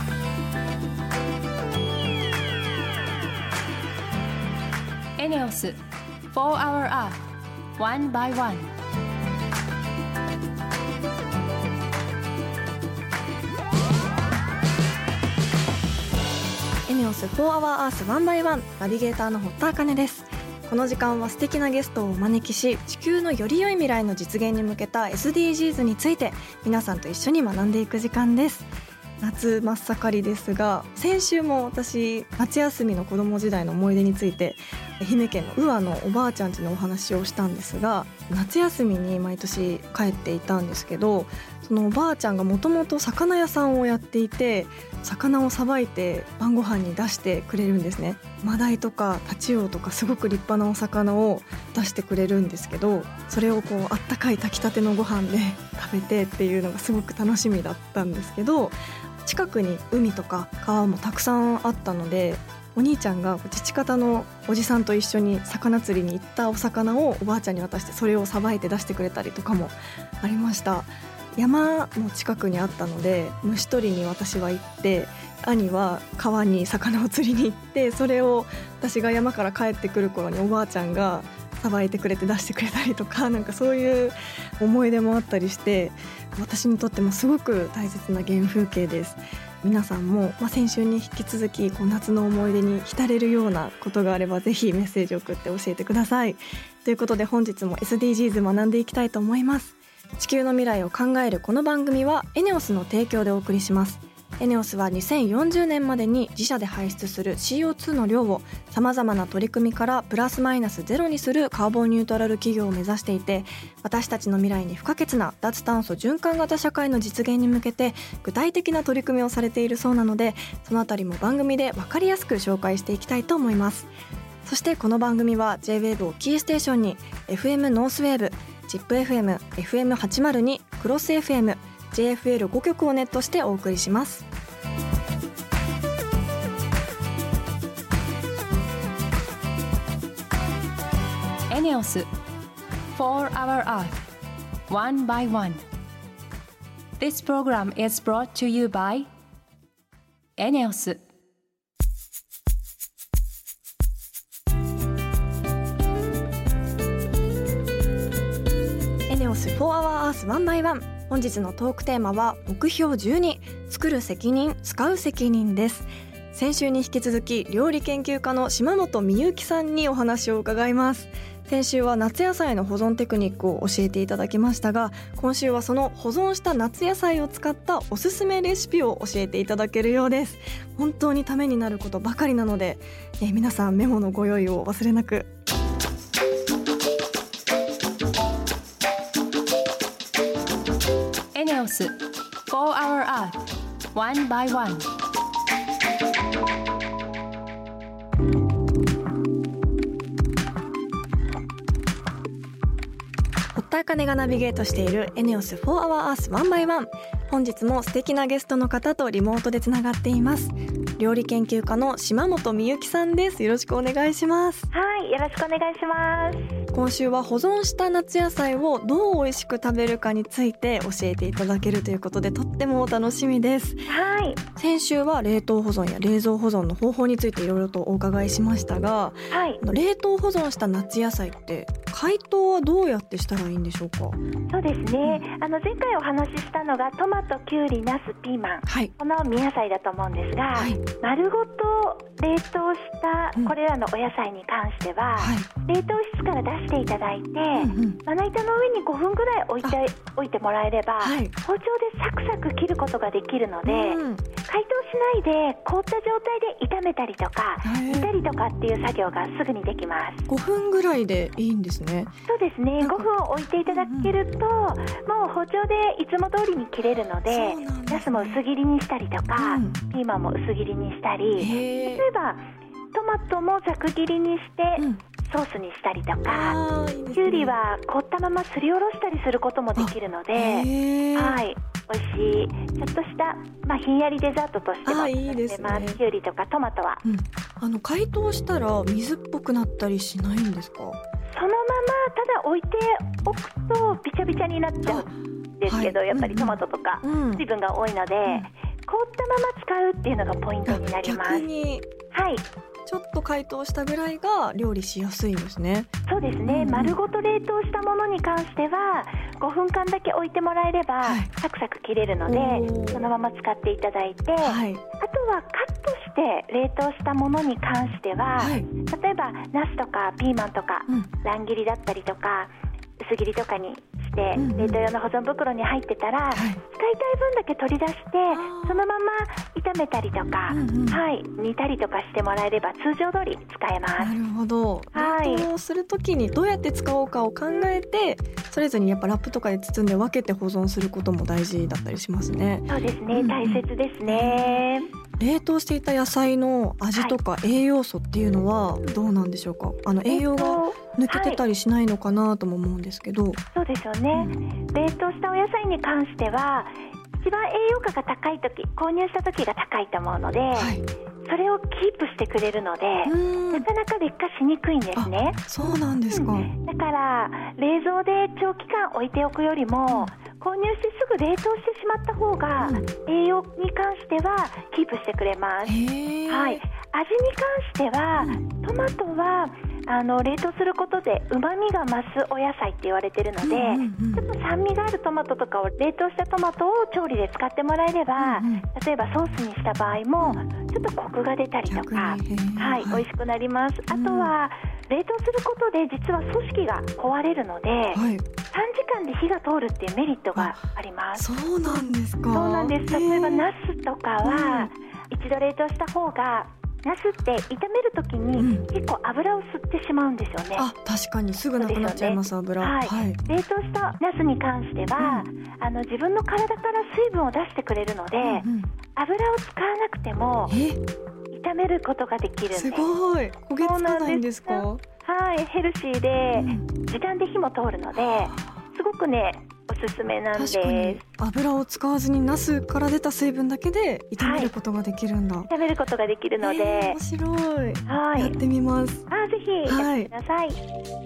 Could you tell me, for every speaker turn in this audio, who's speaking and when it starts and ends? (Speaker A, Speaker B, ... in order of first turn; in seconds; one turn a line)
Speaker A: 5.2-5.8
Speaker A: 6.3-7.2
Speaker A: 7.8-8.7
Speaker B: 16.9-28.7
Speaker B: 29.2-123.9
Speaker B: 124.4-134.3
Speaker A: 141.5-142.1
Speaker A: 142.9-144.0
Speaker A: 144.7-145.6
Speaker A: 147.0-149.1
Speaker A: 150.4-151.0
Speaker B: 159.1-185.3
Speaker A: 191.3-193.4
Speaker A: 193.9-194.9
Speaker B: 203.5-214.7
Speaker C: 214.7-216.5
Speaker B: 216.7-223.8
Speaker C: 223.9-224.4
Speaker B: 224.6-234.2
Speaker C: 229.3-229.6
Speaker C: 234.5-260.2
Speaker B: 235.0-235.3
Speaker B: 238.7-238.9
Speaker B: 240.5-240.8
Speaker B: 245.2-245.5
Speaker B: 247.5-248.0
Speaker B: 251.0-251.3
Speaker B: 253.6-254.2
Speaker B: 257.6-258.2
Speaker B: 260.3-262.1
Speaker C: 262.2-276.6
Speaker B: 262.8-263.1
Speaker B: 263.6-264.1
Speaker B: 267.3-268.4
Speaker B: 269.4-269.8
Speaker B: 271.4-272.1
Speaker B: 276.2-277.6
Speaker C: 277.1-287.0
Speaker B: 279.8-281.4
Speaker B: 284.8-286.0
Speaker B: 287.0-291.0
Speaker C: 291.3-301.4
Speaker B: 294.8-295.1
Speaker B: 295.6-297.4
Speaker B: 298.2-298.5
Speaker B: 300.6-301.9
Speaker C: 302.1-302.4
Speaker B: 302.9-305.9
Speaker C: 306.1-334.1
Speaker B: 306.4-307.0
Speaker B: 311.0-311.3
Speaker B: 312.2-313.1
Speaker B: 314.4-314.8
Speaker B: 318.4-318.7
Speaker B: 324.4-324.8
Speaker B: 326.3-326.6
Speaker B: 328.3-328.9
Speaker B: 330.5-331.0
Speaker B: 334.0-344.6
Speaker C: 334.9-335.5
Speaker C: 342.7-344.9
Speaker B: 345.2-353.4
Speaker C: 350.1-351.4
Speaker C: 353.5-360.7
Speaker B: 354.1-354.4
Speaker B: 360.5-360.9
Speaker C: 361.2-365.5
Speaker B: 363.0-363.7
Speaker B: 364.9-366.5
Speaker C: 366.1-375.8
Speaker B: 369.9-370.1
Speaker B: 372.6-372.9
Speaker B: 375.6-376.6
Speaker C: 376.3-410.7
Speaker B: 378.1-378.4
Speaker B: 383.4-384.3
Speaker B: 388.1-388.6
Speaker B: 391.7-393.1
Speaker B: 393.9-394.4
Speaker B: 397.9-398.2
Speaker B: 400.3-400.6
Speaker B: 401.1-403.5
Speaker B: 404.2-404.7
Speaker B: 408.3-408.7
Speaker B: 410.6-413.2
Speaker C: 411.6-420.6
Speaker B: 415.0-415.3
Speaker B: 418.2-418.7
Speaker B: 420.5-420.8
Speaker C: 421.3-422.9
Speaker B: 422.5-424.8
Speaker C: 423.6-431.0
Speaker B: 426.3-426.6
Speaker B: 427.9-428.6
Speaker B: 430.3-435.5
Speaker C: 434.2-434.5
Speaker C: 435.5-437.0
Speaker B: 436.4-439.1
Speaker C: 437.9-438.4
Speaker C: 439.1-440.6
Speaker B: 439.6-440.1